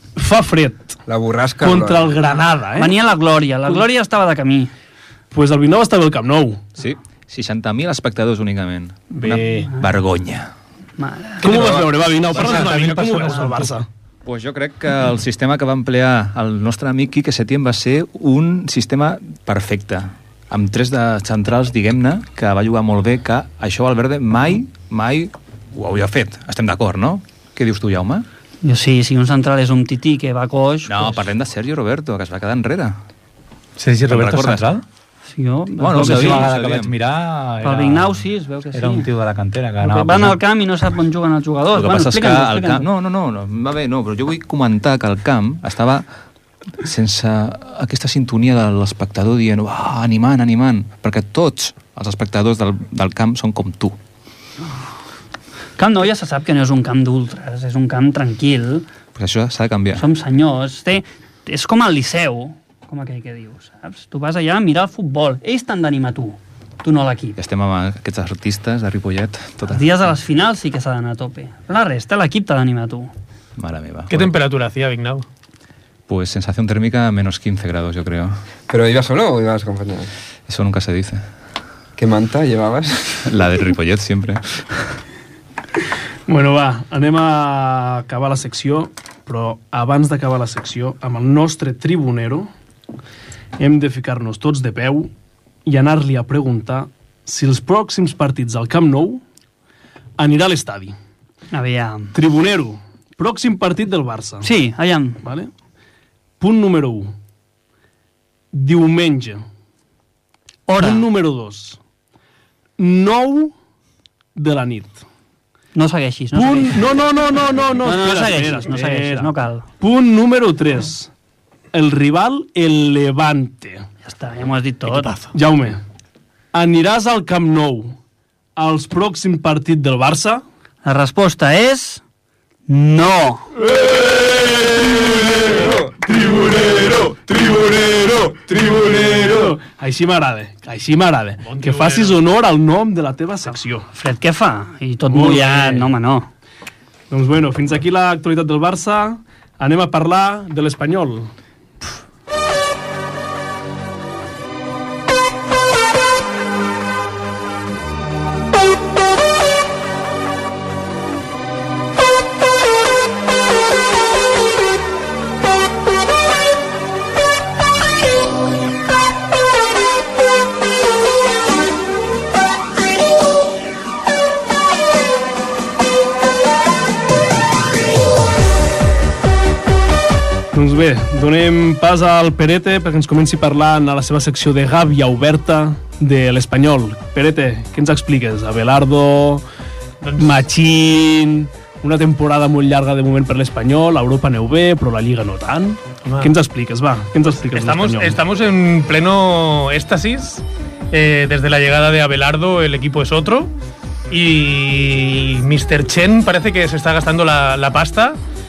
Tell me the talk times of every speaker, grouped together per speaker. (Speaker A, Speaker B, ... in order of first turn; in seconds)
Speaker A: 0.1-1.0, 1.6-3.0, 5.3-6.7, 9.1-9.7, 11.4-13.9, 86.3-92.5, 93.6-95.1, 95.6-99.2, 100.2-101.0, 102.1-104.5, 105.2-105.5, 106.4-107.1, 108.5-109.4, 110.8-111.8, 112.8-113.5, 114.3-115.0, 116.3-121.1, 121.7-123.9, 125.3-125.8, 126.5-128.0, 128.6-130.4, 133.7-143.9, 145.1-145.9, 147.1-151.3, 180.5-189.4, 190.2-198.2
Speaker B: 1.1-2.1, 11.5-11.8, 78.7-80.1, 82.0-83.1
Speaker C: 2.8-4.7, 11.0-11.8, 28.6-31.2, 35.3-36.5, 37.6-39.1, 39.8-42.9, 55.8-58.9, 60.0-67.4, 69.7-73.1, 101.5-102.1, 104.4-105.2, 110.7-111.1, 115.8-116.9, 117.8-119.7, 124.0-125.3, 130.8-132.0, 132.7-133.5, 143.9-146.3
Speaker D: 6.8-10.5, 12.4-12.7, 14.2-28.3, 30.9-33.0, 34.1-34.7, 35.8-36.9, 41.7-46.1, 46.8-54.0, 59.1-60.1, 67.4-70.0, 73.6-74.3, 76.1-78.3, 80.5-81.2, 83.2-84.6
Speaker E: 12.3-13.8, 33.8-34.8, 35.9-40.4
Speaker F: 74.1-75.3, 124.9-125.3, 141.4-142.2, 190.0-190.5, 196.0-196.3, 197.5-203.5, 204.1-208.2